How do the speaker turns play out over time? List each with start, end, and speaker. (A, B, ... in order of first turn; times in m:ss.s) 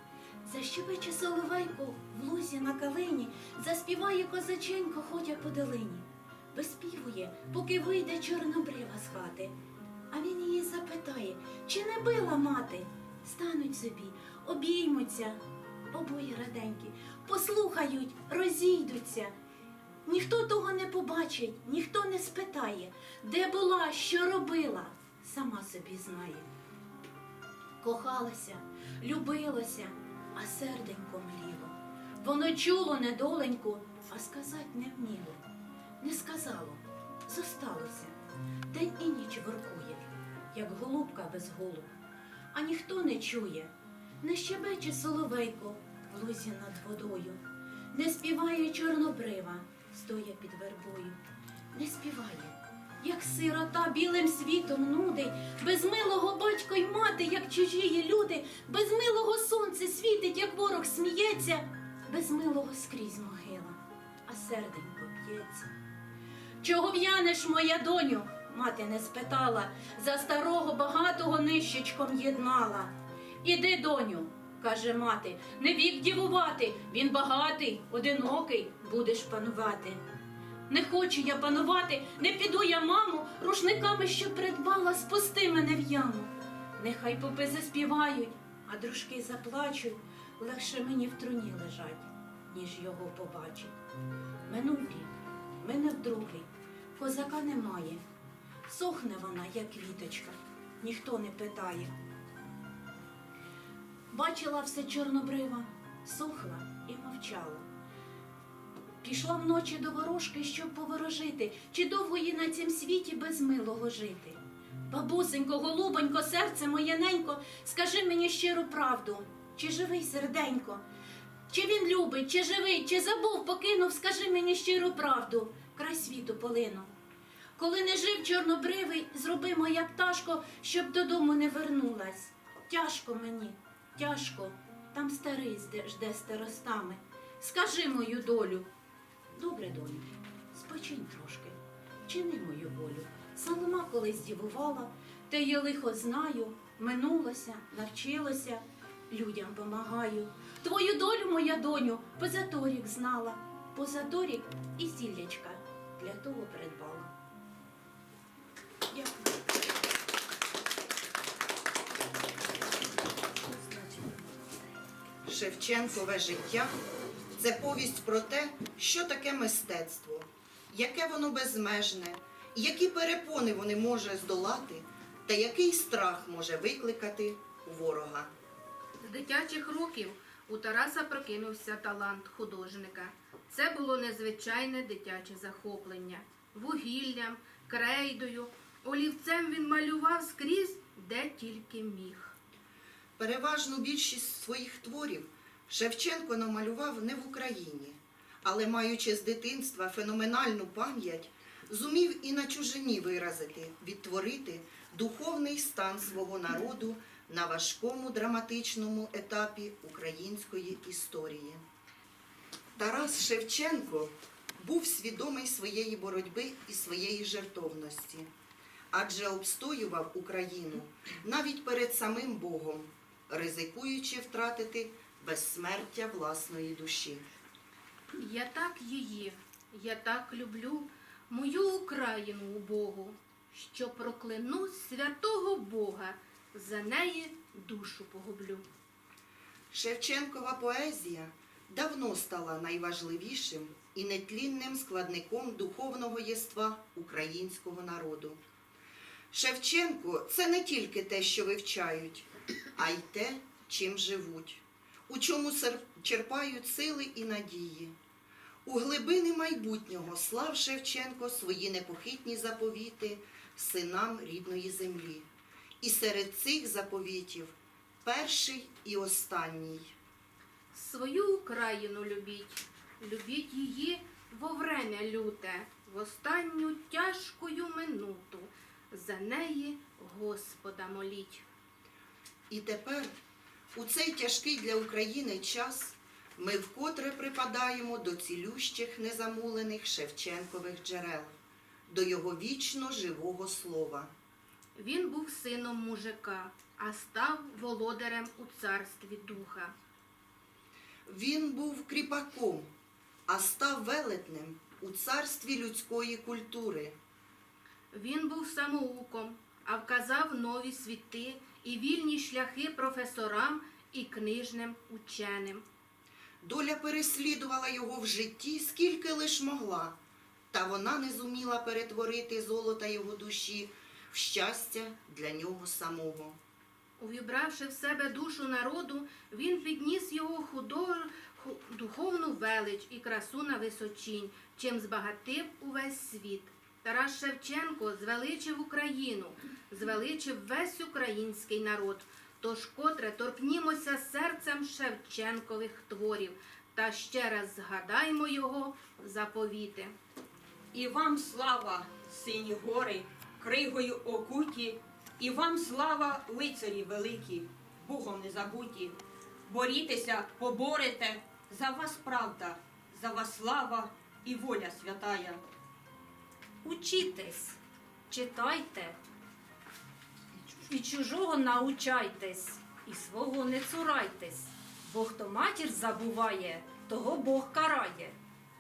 0:00.4-0:09.5 A
0:10.1-0:15.4 A
0:15.9-0:19.3 A
0:20.0-0:26.5 A
0:27.8-0:35.5 A
0:36.0-0:38.2 A
0:38.7-0:41.9 A
0:42.5-0:47.4 A
0:47.9-0:51.2 A
0:51.7-1:05.7 A
1:06.6-1:20.0 A
1:20.7-1:33.7 A
1:34.5-1:38.0 A
1:38.7-1:41.9 A
1:44.1-1:47.7 A
1:49.0-2:00.8 A
2:01.5-2:06.9 A
2:07.6-2:18.7 A
2:19.4-2:37.1 A
2:38.9-2:39.3 A
2:43.5-2:44.2 A
2:45.2-2:46.7 B
2:47.4-2:58.3 B
2:59.0-3:12.3 C
3:13.2-3:31.6 B
3:32.8-3:38.3 B
3:38.9-3:47.2 B
3:48.1-3:58.7 C
3:59.7-4:08.4 B
4:09.3-4:17.9 B
4:18.6-4:25.3 B
4:25.8-4:29.9 B
4:30.7-4:41.4 C
4:42.5-4:43.1 B
4:43.7-4:51.3 B
4:51.9-4:54.1 B
4:54.8-4:59.7 C
5:01.1-5:02.7 B
5:03.3-5:07.0 B
5:07.9-5:15.6 C
5:16.4-5:20.0 B
5:20.5-5:26.4 B
5:27.0-5:49.9 C
5:50.7-6:05.4 D
6:06.6-6:07.6 A
6:08.1-6:09.0 A
6:10.6-6:18.2 A